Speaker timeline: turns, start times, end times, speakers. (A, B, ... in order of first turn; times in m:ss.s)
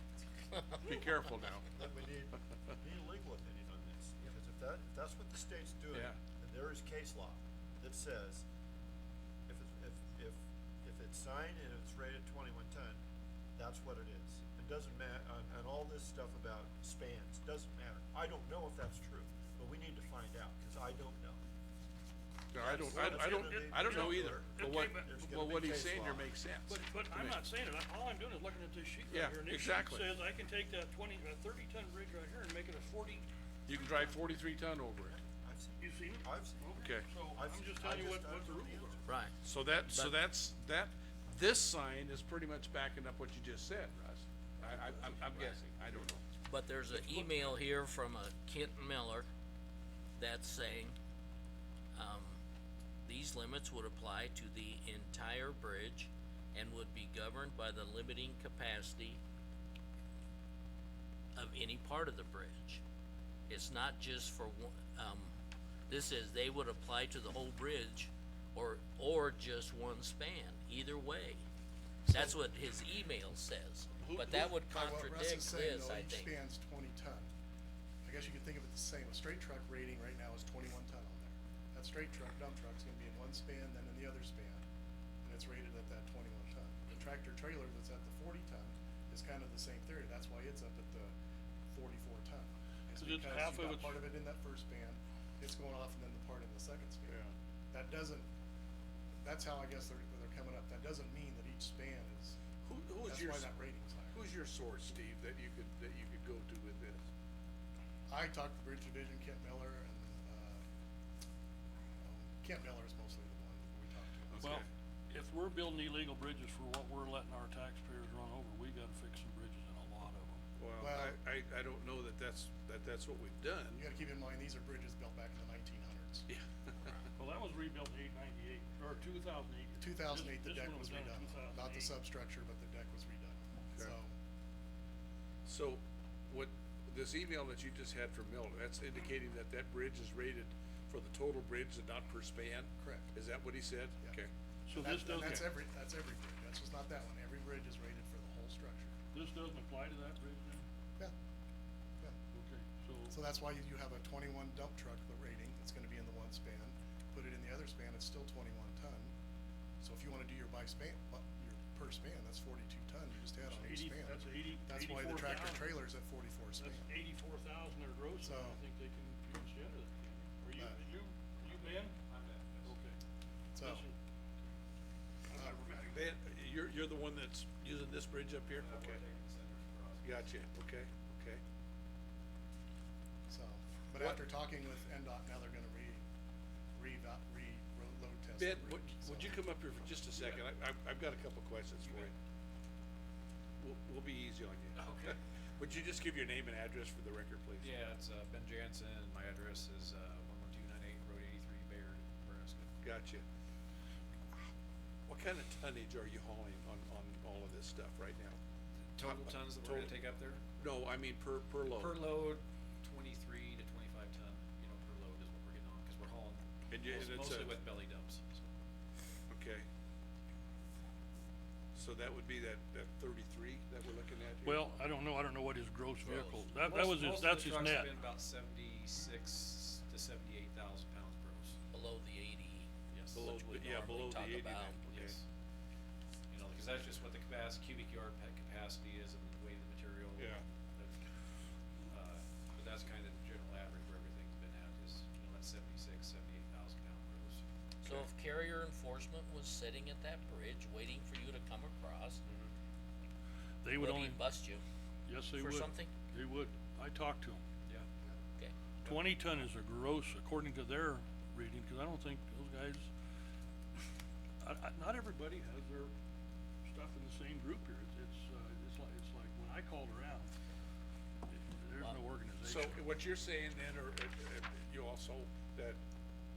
0:00.8-0:01.7 A
0:01.7-0:08.4 B
0:09.5-0:13.0 B
0:13.6-0:21.4 B
0:22.5-0:27.4 A
0:22.6-0:26.3 B
0:23.2-0:25.8 C
0:26.7-0:33.3 C
0:29.1-0:30.1 A
0:33.7-0:35.2 A
0:35.0-0:39.0 B
0:35.8-0:39.0 C
0:36.8-0:37.1 A
0:39.1-0:39.3 D
0:39.4-0:46.2 A
0:39.9-0:40.2 D
0:45.3-0:45.6 D
0:46.4-0:49.3 D
0:46.9-0:47.2 A
0:50.2-0:51.0 D
0:52.0-0:52.4 D
0:53.0-0:59.2 D
1:01.3-1:02.8 D
1:03.5-1:05.3 D
1:05.9-1:11.4 D
1:12.1-1:12.4 E
1:12.1-1:16.3 D
1:14.0-1:17.3 E
1:18.0-1:24.6 E
1:25.2-1:31.1 E
1:31.7-1:37.2 E
1:32.9-1:34.0 C
1:37.7-1:38.3 E
1:39.2-1:42.4 E
1:42.6-1:43.6 A
1:43.0-1:44.2 E
1:44.1-1:47.0 A
1:48.1-1:50.6 E
1:52.0-1:54.6 E
1:54.4-1:54.7 A
1:54.4-2:00.4 C
2:00.6-2:03.8 A
2:00.8-2:01.2 E
2:03.8-2:06.3 E
2:06.3-2:07.0 A
2:07.2-2:11.9 C
2:09.8-2:14.1 E
2:15.5-2:24.3 A
2:22.8-2:23.1 E
2:24.7-2:25.5 C
2:24.7-2:29.0 E
2:29.1-2:30.6 C
2:32.3-2:33.2 C
2:33.1-2:39.1 E
2:39.8-2:46.9 E
2:43.5-2:45.8 C
2:46.6-2:52.0 C
2:48.2-2:48.6 E
2:50.5-2:50.8 E
2:51.4-2:52.8 F
2:52.6-2:53.0 C
2:53.6-2:53.9 E
2:53.6-2:54.0 C
2:55.3-2:56.0 C
2:55.3-2:55.6 E
2:55.9-2:59.0 A
2:58.5-3:00.3 F
3:00.0-3:01.4 A
3:03.3-3:06.0 E
3:04.0-3:04.2 A
3:06.8-3:09.4 E
3:08.4-3:12.1 A
3:10.1-3:10.5 F
3:11.8-3:12.1 F
3:13.6-3:17.8 A
3:14.8-3:15.2 F
3:17.6-3:22.7 F
3:22.8-3:23.2 A
3:25.1-3:28.4 A
3:28.9-3:30.4 F
3:29.0-3:30.0 A
3:30.6-3:32.2 A
3:31.7-3:38.5 F
3:36.7-3:37.6 A
3:39.3-3:39.7 A
3:41.8-3:44.6 A
3:44.4-3:48.0 C
3:46.0-3:46.4 D
3:46.1-3:51.6 F
3:51.7-3:52.7 D
3:52.9-3:53.4 F
3:53.2-3:55.2 A
3:53.2-3:54.8 D
3:54.9-3:55.2 F
3:56.3-4:01.0 F
4:00.2-4:00.4 A
4:01.9-4:07.4 F
4:07.8-4:12.2 D
4:12.3-4:12.5 F
4:13.6-4:14.2 C
4:13.8-4:14.6 D
4:15.1-4:17.4 C
4:15.4-4:15.9 D
4:18.8-4:22.9 C
4:24.4-4:25.9 C
4:26.6-4:30.3 C
4:31.3-4:32.9 C
4:32.4-4:35.8 A